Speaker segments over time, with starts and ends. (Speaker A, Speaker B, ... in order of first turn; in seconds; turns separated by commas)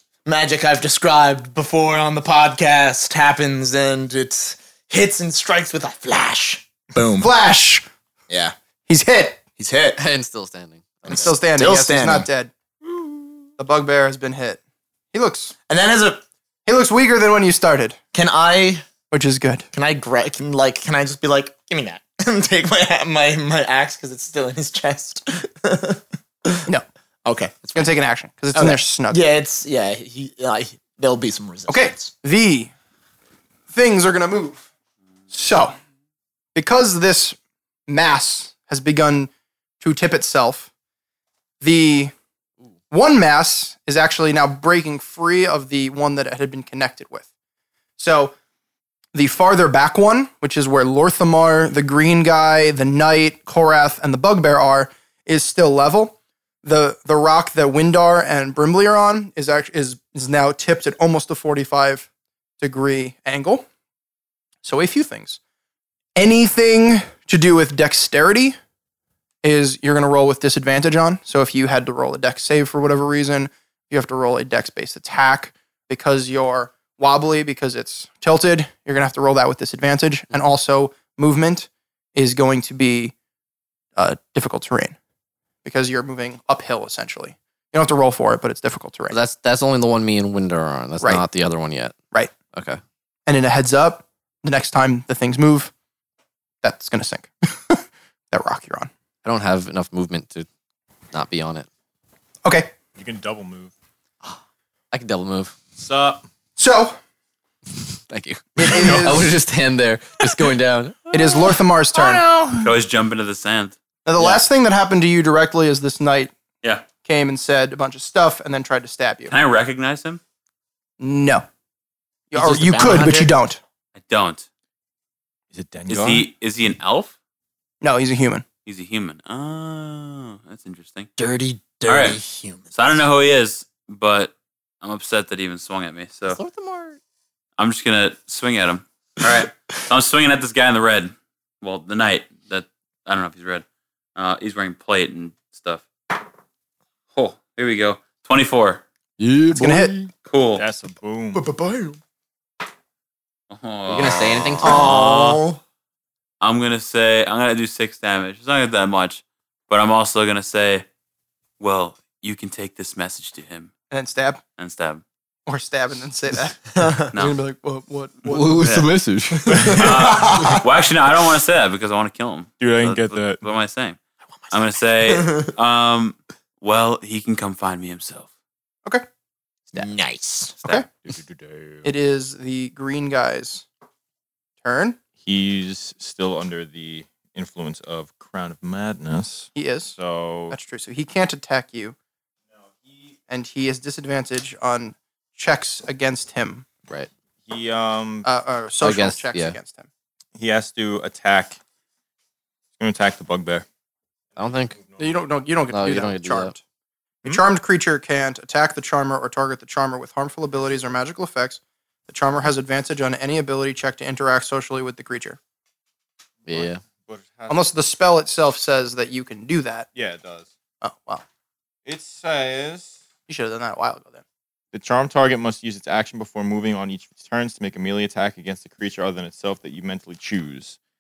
Speaker A: 0.2-7.3, Speaker B: 7.2-7.9, Speaker A: 8.3-8.6, Speaker B: 8.9-9.4, Speaker A: 9.6-10.0, Speaker C: 10.0-11.3, Speaker A: 11.1-12.3, Speaker B: 11.1-12.5, Speaker B: 13.6-14.6, Speaker B: 15.1-15.6, Speaker A: 15.7-16.2, Speaker B: 16.7-18.0, Speaker A: 18.1-18.9, Speaker B: 19.1-19.7, Speaker A: 19.7-26.7, Speaker A: 27.2-27.9, Speaker B: 27.8-29.2, Speaker A: 28.5-32.1, Speaker B: 31.7-32.7, Speaker B: 33.7-34.6, Speaker B: 35.3-35.8, Speaker B: 36.5-37.4, Speaker B: 37.9-40.7, Speaker B: 41.6-42.1, Speaker B: 42.9-47.3, Speaker B: 48.0-48.4, Speaker B: 49.1-62.1, Speaker B: 62.6-63.7, Speaker B: 64.6-65.4, Speaker B: 66.2-68.6, Speaker B: 69.4-83.1, Speaker B: 84.0-85.0, Speaker B: 85.6-89.2, Speaker C: 89.1-92.0, Speaker C: 92.5-92.8, Speaker B: 93.3-95.7, Speaker B: 96.6-98.9, Speaker C: 99.2-100.5, Speaker C: 101.1-101.7, Speaker B: 102.5-102.7, Speaker D: 103.0-103.7, Speaker C: 104.9-105.6, Speaker D: 105.8-106.2, Speaker B: 106.6-107.0, Speaker C: 107.7-111.1, Speaker B: 108.6-109.3, Speaker D: 108.7-109.1, Speaker B: 111.1-112.2, Speaker D: 111.1-112.7, Speaker E: 112.6-113.8, Speaker B: 114.0-116.3, Speaker B: 117.0-119.3, Speaker E: 119.3-120.2, Speaker B: 121.0-121.5, Speaker B: 122.3-123.6, Speaker A: 122.3-123.3, Speaker E: 124.0-124.5, Speaker D: 125.5-126.3, Speaker E: 125.9-127.2, Speaker B: 127.8-128.4, Speaker E: 128.7-131.1, Speaker A: 131.2-132.7, Speaker E: 131.8-132.2, Speaker E: 132.7-136.4, Speaker C: 136.3-137.0, Speaker E: 137.6-145.9, Speaker E: 147.1-148.8, Speaker C: 149.2-150.1, Speaker B: 149.5-149.9, Speaker E: 150.3-150.6, Speaker D: 150.6-151.4, Speaker A: 151.3-152.0, Speaker E: 153.5-155.4, Speaker C: 153.9-155.0, Speaker A: 154.6-155.6, Speaker E: 156.4-160.9, Speaker E: 161.6-163.7, Speaker B: 163.9-164.4, Speaker E: 164.6-165.0, Speaker B: 165.5-168.7, Speaker A: 166.8-167.1, Speaker E: 167.1-167.4, Speaker C: 168.3-169.8, Speaker E: 168.4-168.9, Speaker A: 169.3-170.7, Speaker D: 169.5-170.2, Speaker E: 169.7-174.0, Speaker D: 172.6-173.4, Speaker A: 174.4-175.5, Speaker E: 174.5-178.3, Speaker A: 179.7-180.8, Speaker D: 181.0-181.9, Speaker B: 181.8-183.7, Speaker B: 184.6-185.0, Speaker D: 185.2-190.6, Speaker B: 189.6-190.0, Speaker B: 190.5-192.0, Speaker D: 192.8-193.2, Speaker B: 193.3-196.7, Speaker D: 197.4-198.3, Speaker B: 198.2-199.9, Speaker C: 198.8-199.6, Speaker D: 200.4-201.6, Speaker D: 202.8-203.7, Speaker D: 204.4-205.3, Speaker C: 204.4-204.8, Speaker B: 205.0-206.6, Speaker C: 205.7-206.5, Speaker B: 207.2-215.4, Speaker D: 216.4-217.7, Speaker C: 216.5-216.8, Speaker B: 217.5-219.9, Speaker D: 219.9-220.5, Speaker B: 220.8-221.2, Speaker D: 221.8-223.0, Speaker B: 223.3-224.2, Speaker D: 224.7-230.8